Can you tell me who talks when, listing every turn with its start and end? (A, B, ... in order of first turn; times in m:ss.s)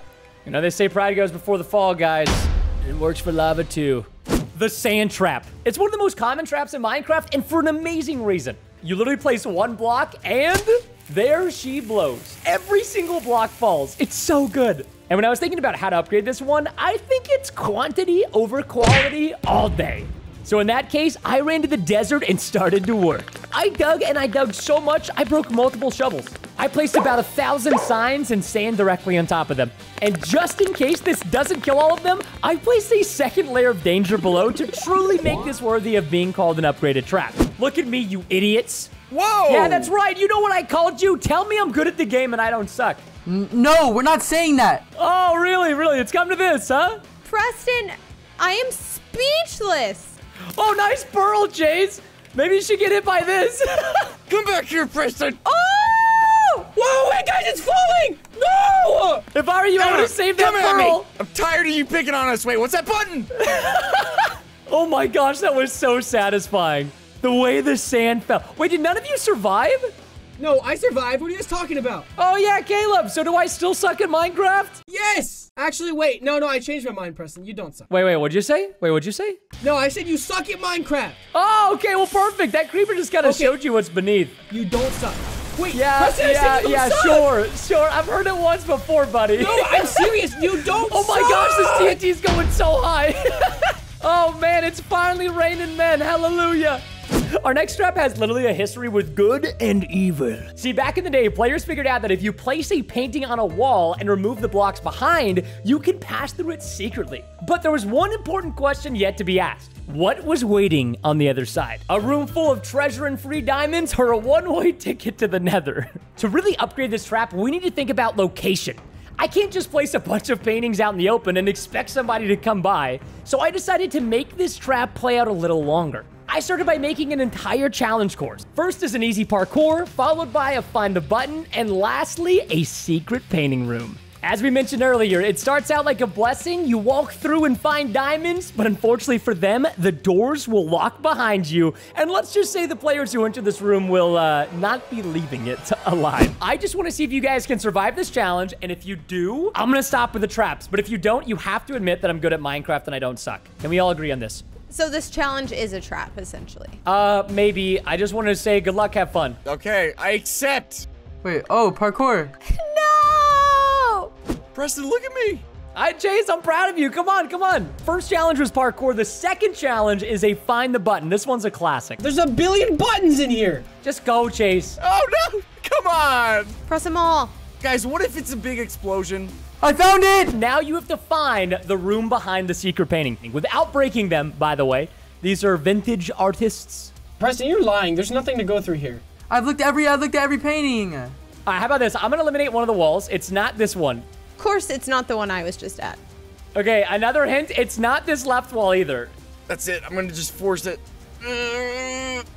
0:00.4-0:38.9 A
0:39.1-0:39.9 B
0:39.5-0:43.0 A
0:43.2-0:44.8 C
0:45.0-0:47.0 A
0:47.2-0:50.1 D
0:50.5-0:54.1 A
0:54.3-0:55.4 B
0:55.4-0:56.5 D
0:56.5-0:59.2 E
0:59.3-1:01.1 A
0:59.8-1:03.4 B
1:03.4-1:09.9 A
1:10.4-1:12.1 E
1:12.2-1:14.8 A
1:14.9-1:17.9 E
1:17.9-1:19.4 A
1:19.6-1:21.2 E
1:21.3-1:24.3 A
1:23.2-1:23.6 E
1:24.5-1:27.3 E
1:25.7-2:34.4 A
1:29.4-1:32.0 E
2:34.7-2:36.8 D
2:36.9-2:39.4 A
2:39.4-2:40.9 B
2:41.2-2:42.3 C
2:42.5-2:44.1 D
2:44.5-2:45.4 B
2:45.8-2:52.0 A
2:52.0-2:53.6 E
2:53.8-2:54.8 A
2:54.8-2:56.6 B
2:56.7-2:57.4 D
2:57.6-2:59.4 B
2:59.6-3:00.4 C
3:00.3-3:06.9 A
3:07.2-3:09.0 E
3:09.3-3:11.1 C
3:11.4-3:14.0 A
3:14.4-3:16.0 D
3:16.5-3:19.1 A
3:19.5-3:22.2 B